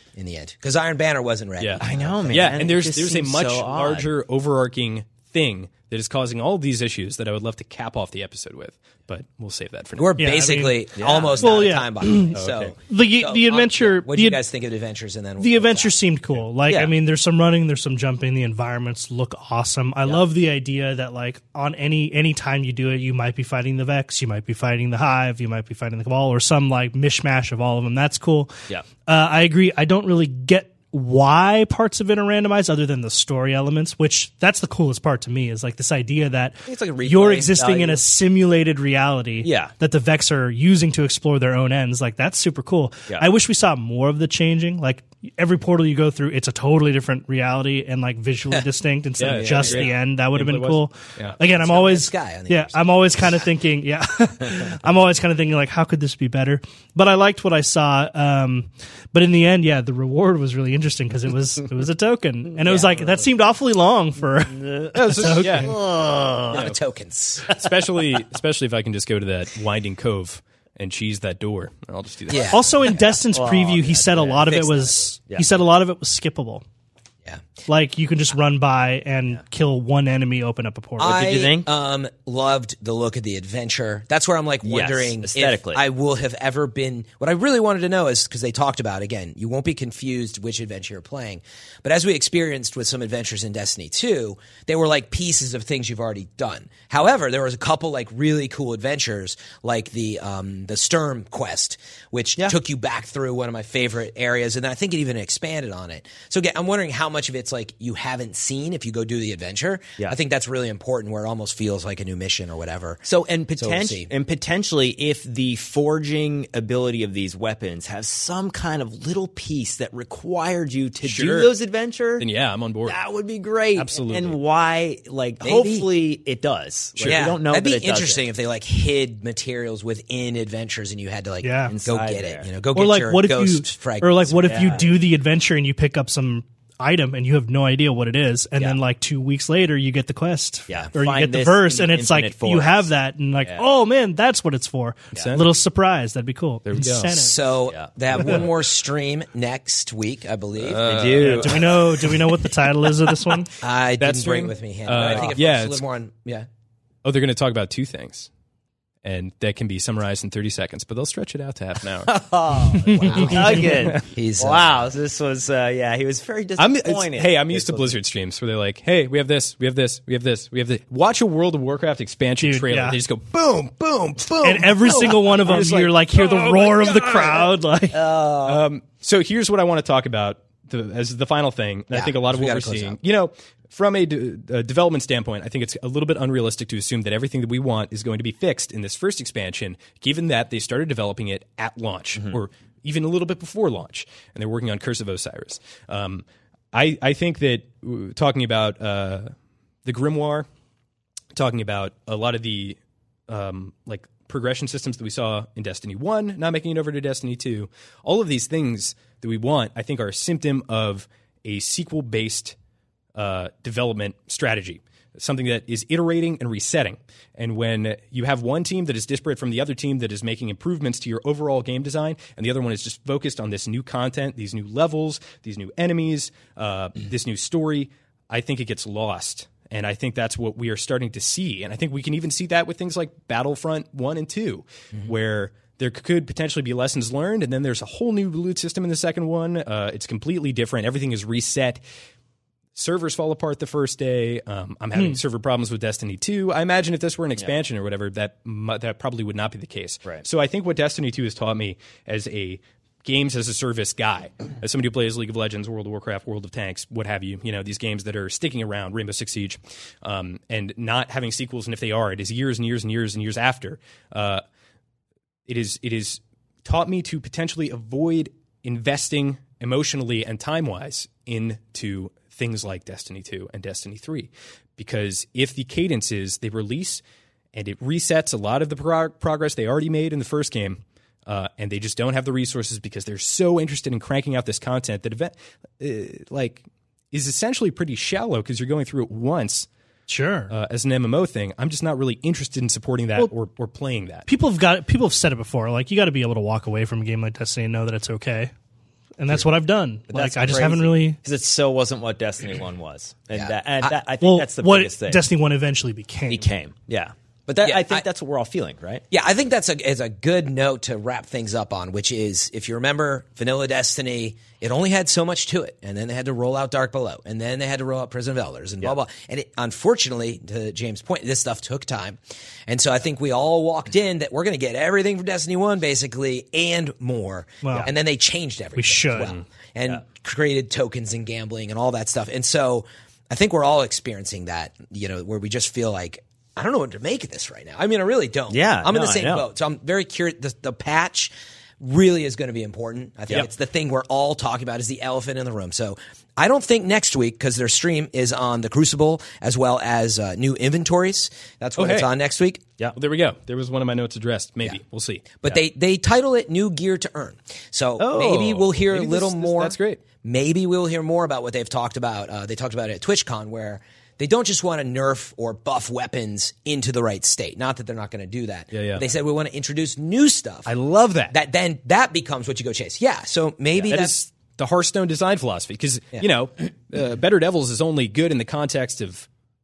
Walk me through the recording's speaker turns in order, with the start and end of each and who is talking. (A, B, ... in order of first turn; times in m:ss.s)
0:00.2-0:02.7 A
0:01.6-0:10.2 B
0:01.8-0:04.1 C
0:10.0-0:16.0 A
0:10.2-0:12.4 D
0:11.0-0:11.5 C
0:12.3-0:12.7 C
0:12.9-0:14.4 D
0:15.4-0:28.5 D
0:16.7-0:16.9 C
0:29.0-1:05.7 D
0:36.7-0:38.0 C
0:39.4-0:39.7 C
0:49.2-0:51.4 B
0:51.4-0:53.4 A
1:02.6-1:03.2 C
1:04.5-1:06.6 C
1:04.9-1:05.8 B
1:06.5-1:07.5 A
1:07.5-1:12.7 B
1:12.3-1:13.2 A
1:12.5-1:16.6 D
1:13.3-1:14.4 C
1:14.0-1:15.2 A
1:17.7-1:21.2 D
1:21.0-1:53.0 A
1:21.0-1:21.7 C
1:24.6-1:25.8 C
1:53.0-2:02.3 C
1:53.5-1:54.1 A
2:01.0-2:01.5 B
2:02.2-2:03.0 B
2:02.8-2:08.2 C
2:03.7-2:04.4 B
2:05.4-2:05.8 A
2:07.0-2:14.9 A
2:11.4-2:11.7 D
2:11.7-2:12.5 C
2:12.7-2:27.4 D
2:14.4-2:15.0 C
2:20.7-2:22.9 C
2:25.1-2:25.5 B
2:26.6-2:27.1 B
2:27.1-2:31.0 A
2:27.7-2:27.9 C
2:30.6-2:31.6 B
2:30.8-2:31.8 C
2:31.2-2:33.5 D
2:33.6-2:36.5 A
2:34.0-2:35.3 C
2:34.8-2:35.8 B
2:37.0-2:38.3 B
2:39.0-2:42.1 B
2:42.0-2:48.0 C
2:42.9-2:43.3 D
2:43.0-2:44.9 A
2:43.2-2:43.7 B
2:46.6-2:57.5 B
2:52.4-2:53.0 D
2:54.4-2:58.0 D
2:58.0-2:58.6 C
2:58.4-3:19.3 B
3:01.9-3:03.0 A
3:19.8-3:20.5 B
3:21.3-3:32.5 B
3:33.1-4:01.8 B
4:02.7-4:24.4 B
4:25.5-4:37.0 B
4:37.5-4:49.7 B
4:50.1-4:50.5 D
4:50.5-4:54.3 B
4:54.3-4:58.5 D
4:59.2-5:01.2 D
5:00.1-5:05.2 C
5:03.3-5:04.0 A
5:04.2-5:06.5 D
5:06.3-5:09.0 C
5:07.6-5:08.0 A
5:09.1-5:52.6 A
5:27.6-5:27.9 D
5:28.8-5:29.3 D
5:38.5-5:39.4 C
5:51.8-5:52.1 B
5:52.9-5:55.2 B
5:55.4-6:10.7 A
5:58.0-6:00.0 B
6:08.7-6:09.0 B
6:10.7-6:11.4 B
6:11.3-6:14.2 A
6:13.8-6:19.3 B